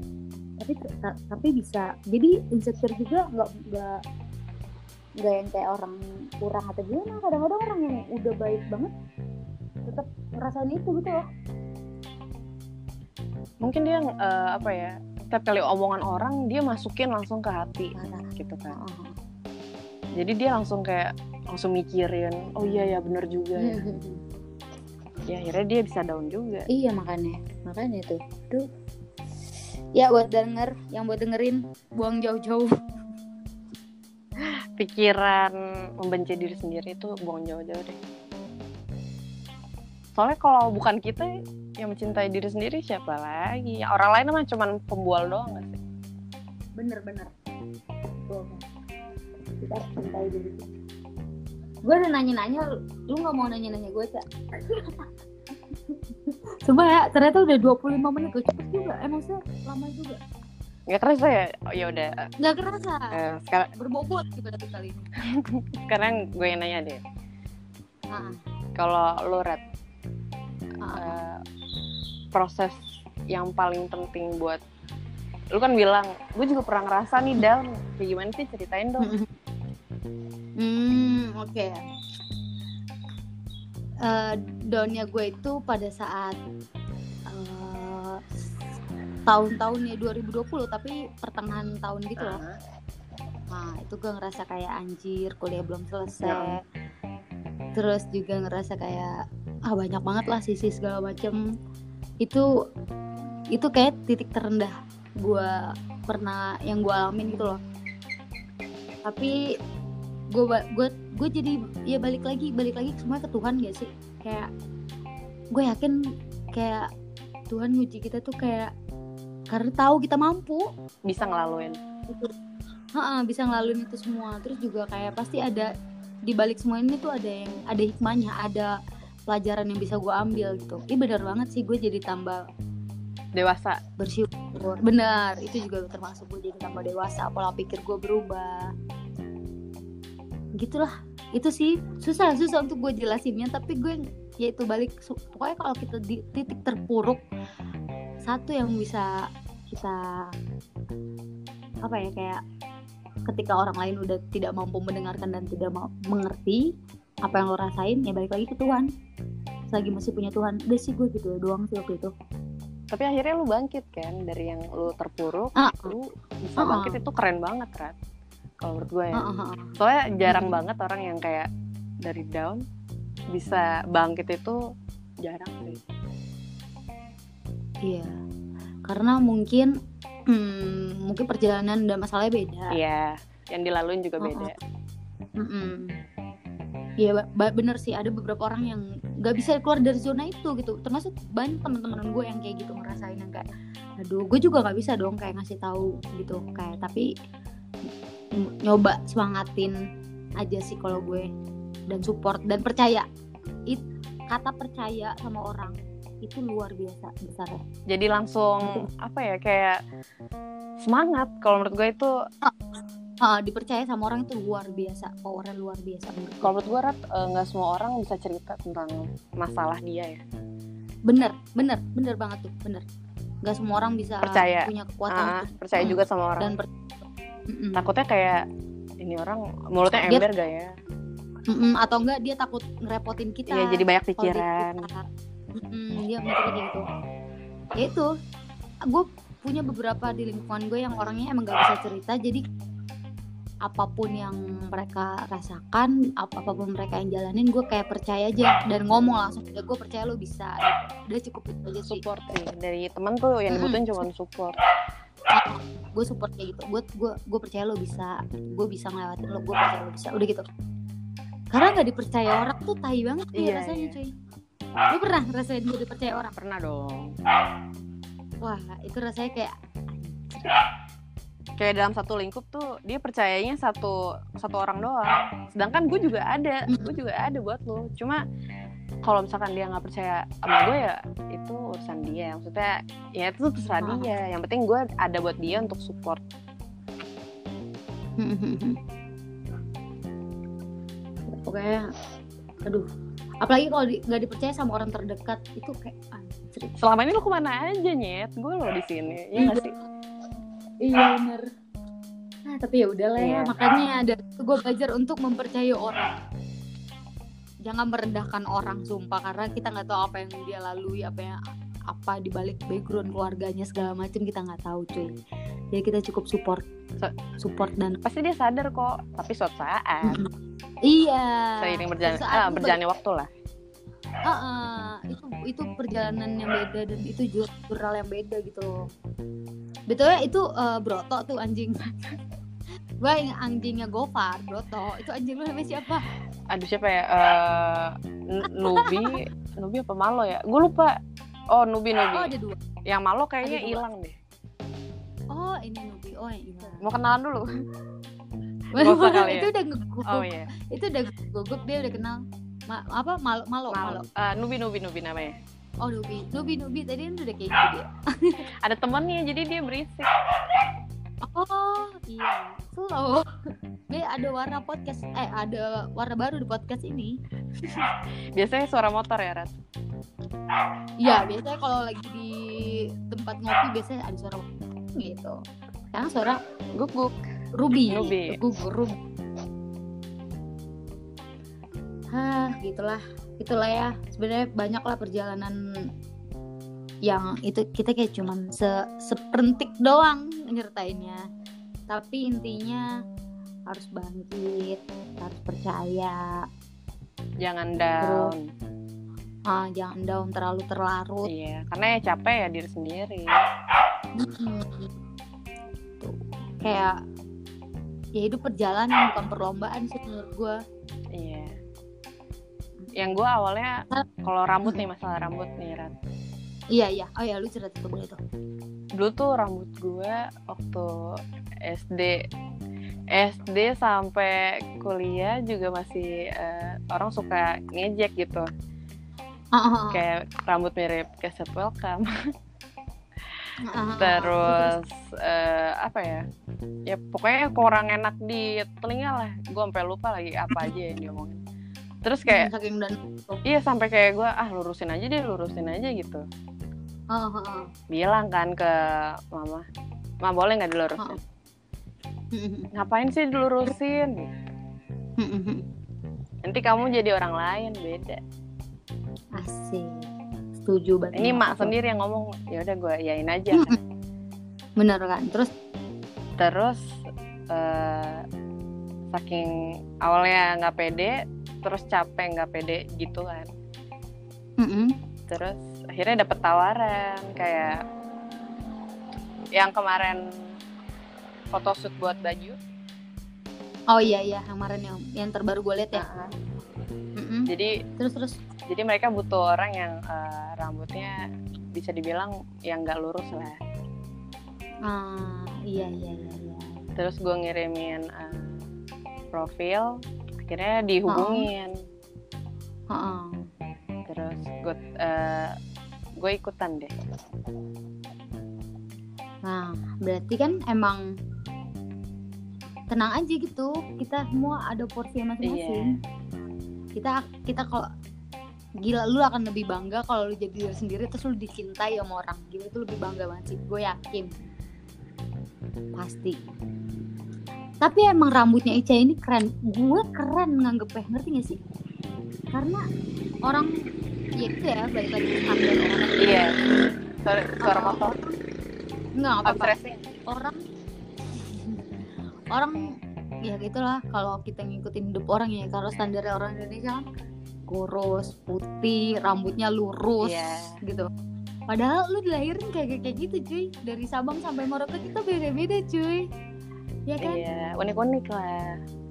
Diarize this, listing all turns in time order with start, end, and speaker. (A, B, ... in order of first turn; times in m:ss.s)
0:00.6-0:04.0 A
0:05.2-0:08.9 A
0:09.8-0:11.2 A
0:13.6-0:18.8 B
0:17.9-0:19.1 A
0:20.2-0:23.8 B
0:23.6-0:24.2 A
0:25.2-0:26.7 B
0:26.7-0:28.7 A
0:29.9-0:32.7 A
0:34.4-0:38.0 B
0:40.1-0:45.8 B
0:46.8-0:47.3 A
0:48.3-0:48.6 A
0:49.6-0:50.7 A
0:51.8-0:55.0 A
0:55.9-1:00.2 A
1:00.9-1:02.1 B
1:02.4-1:03.2 A
1:03.1-1:03.7 B
1:03.8-1:05.1 A
1:05.3-1:07.0 B
1:08.1-1:08.4 A
1:08.8-1:09.6 B
1:10.8-1:11.2 A
1:10.9-1:11.4 B
1:12.3-1:14.6 B
1:15.5-1:19.1 B
1:19.0-1:19.3 A
1:20.6-1:21.8 A
1:24.0-1:26.4 A
1:27.3-1:28.2 A
1:29.3-1:32.4 A
1:32.2-1:32.6 B
1:33.5-1:36.6 A
1:36.2-1:36.5 B
1:37.7-1:41.4 A
1:43.5-1:47.6 A
1:49.0-1:49.4 A
1:50.3-1:54.5 A
1:55.5-1:56.0 A
1:56.5-1:56.9 A
1:57.5-1:58.7 A
1:59.5-2:00.7 A
2:01.0-2:01.8 B
2:03.0-2:05.7 A
2:06.3-2:08.7 A
2:09.3-2:12.4 A
2:13.3-2:13.8 B
2:14.0-2:18.7 A
2:20.6-2:27.2 A
2:28.2-2:30.3 A
2:31.8-2:32.4 A
2:33.3-2:36.7 A
2:37.2-2:38.9 A
2:39.7-2:42.1 A
2:42.9-2:47.9 B
2:45.6-2:45.9 A
2:46.6-2:47.0 A
2:48.6-2:49.3 B
2:49.1-2:50.6 A
2:49.8-2:51.5 B
2:52.0-2:52.6 B
2:53.3-2:54.6 B
2:55.2-2:55.8 B
2:57.8-2:58.2 A
2:58.8-2:59.7 A
3:00.3-3:02.8 A
3:02.7-3:04.6 B
3:04.2-3:04.5 A
3:05.4-3:06.0 A
3:07.0-3:13.5 A
3:14.0-3:17.1 A
3:18.3-3:19.8 A
3:20.4-3:21.3 A
3:21.9-3:23.1 A
3:23.7-3:27.6 A
3:27.9-3:29.8 B
3:30.8-3:32.1 B
3:33.2-3:36.5 A
3:36.4-3:40.2 B
3:41.1-3:42.8 A
3:43.4-3:46.7 A
3:44.2-3:46.5 B
3:47.5-3:47.9 A
3:47.8-3:48.4 B
3:49.0-3:50.7 B
3:51.5-3:56.8 A
3:53.5-3:54.9 B
3:57.8-3:58.1 A
3:58.9-4:02.4 A
4:03.6-4:12.0 A
4:11.9-4:14.6 B
4:13.5-4:13.8 A
4:15.3-4:20.5 A
4:21.5-4:24.1 A
4:23.3-4:24.0 B
4:24.9-4:26.3 A
4:26.4-4:27.2 B
4:28.4-4:30.5 A
4:31.6-4:38.2 B
4:39.0-4:46.2 B
4:43.6-4:44.1 A
4:48.2-4:48.8 A
4:51.3-4:51.9 A
4:53.4-4:56.8 A
4:56.8-4:59.7 B
4:59.4-4:59.7 A
5:00.8-5:01.5 A
5:02.5-5:06.2 A
5:03.2-5:03.5 B
5:07.6-5:11.4 A
5:11.9-5:15.2 A
5:15.7-5:16.6 A
5:17.4-5:18.0 A
5:18.0-5:20.2 B
5:20.0-5:20.3 A
5:20.9-5:22.8 A
5:21.6-5:23.3 B
5:24.2-5:28.9 A
5:29.9-5:31.9 A
5:33.0-5:36.0 A
5:36.5-5:41.0 B
5:38.4-5:39.2 A
5:41.5-5:42.3 B
5:42.1-5:42.6 A
5:42.8-5:44.2 B
5:43.4-5:43.8 A
5:45.3-5:46.9 A
5:46.8-5:47.5 B
5:48.7-5:54.0 A
5:48.8-5:49.5 B
5:50.0-5:50.5 B
5:53.7-5:55.4 B
5:55.8-5:58.4 A
5:58.6-6:00.1 B
6:01.2-6:03.3 A
6:03.9-6:07.1 A
6:08.3-6:09.5 B
6:11.0-6:14.4 A
6:15.0-6:15.4 A
6:15.9-6:16.4 A
6:16.8-6:17.2 B
6:17.5-6:19.0 A
6:17.9-6:18.4 B
6:22.1-6:25.6 A
6:27.0-6:31.2 A
6:31.9-6:32.9 A
6:33.7-6:36.4 A
6:37.4-6:38.5 B
6:38.0-6:38.3 A
6:39.5-6:41.3 A
6:41.2-6:43.3 B
6:44.2-6:44.9 A
6:46.0-6:47.0 A
6:48.2-6:50.6 A
6:51.1-6:51.5 B
6:52.9-6:55.9 B
6:56.7-6:58.2 A
6:59.0-7:02.2 B
7:03.1-7:08.5 B
7:09.5-7:10.0 A
7:09.9-7:12.1 B
7:13.6-7:14.7 A
7:14.0-7:16.2 B
7:16.9-7:21.4 B
7:22.0-7:22.5 B
7:22.3-7:23.4 A
7:23.4-7:26.2 B
7:27.1-7:27.7 A
7:27.9-7:29.6 B
7:30.2-7:31.2 B
7:32.3-7:32.7 A
7:32.7-7:34.4 B
7:35.2-7:35.6 A
7:36.4-7:38.2 B
7:39.4-7:40.1 A
7:40.6-7:41.7 A
7:41.1-7:43.8 B
7:43.5-7:43.8 A
7:44.8-7:45.5 A
7:46.4-7:47.0 B
7:47.5-7:48.2 B
7:49.1-7:53.5 B
7:54.6-7:54.9 A
7:55.3-7:57.8 B
7:59.5-8:00.3 B
8:01.5-8:02.6 B
8:03.9-8:06.0 A
8:05.9-8:06.3 B
8:07.2-8:08.4 A
8:07.5-8:07.8 B
8:08.7-8:11.2 B
8:11.7-8:13.6 B
8:14.8-8:16.8 A
8:17.0-8:18.6 B
8:19.3-8:21.7 B
8:21.1-8:21.5 A
8:22.9-8:23.4 A
8:24.0-8:25.6 B
8:26.2-8:26.9 B
8:29.4-8:31.0 A
8:32.9-8:36.0 A
8:35.4-8:35.9 B
8:37.0-8:37.9 A
8:38.8-8:44.3 A
8:46.0-8:46.4 A
8:47.8-8:51.6 A
8:52.5-8:52.8 A
8:53.4-8:53.7 A
8:54.4-8:56.5 A
8:56.2-8:56.6 B
8:57.2-8:58.2 B
8:57.6-8:58.3 A
8:59.2-8:59.7 A
8:59.4-9:00.0 B
9:00.3-9:00.6 A
9:01.5-9:01.8 A
9:02.5-9:02.8 A
9:03.4-9:07.0 A
9:07.7-9:11.1 A
9:10.2-9:10.8 B
9:11.7-9:16.2 A
9:17.1-9:17.4 A
9:17.2-9:18.8 B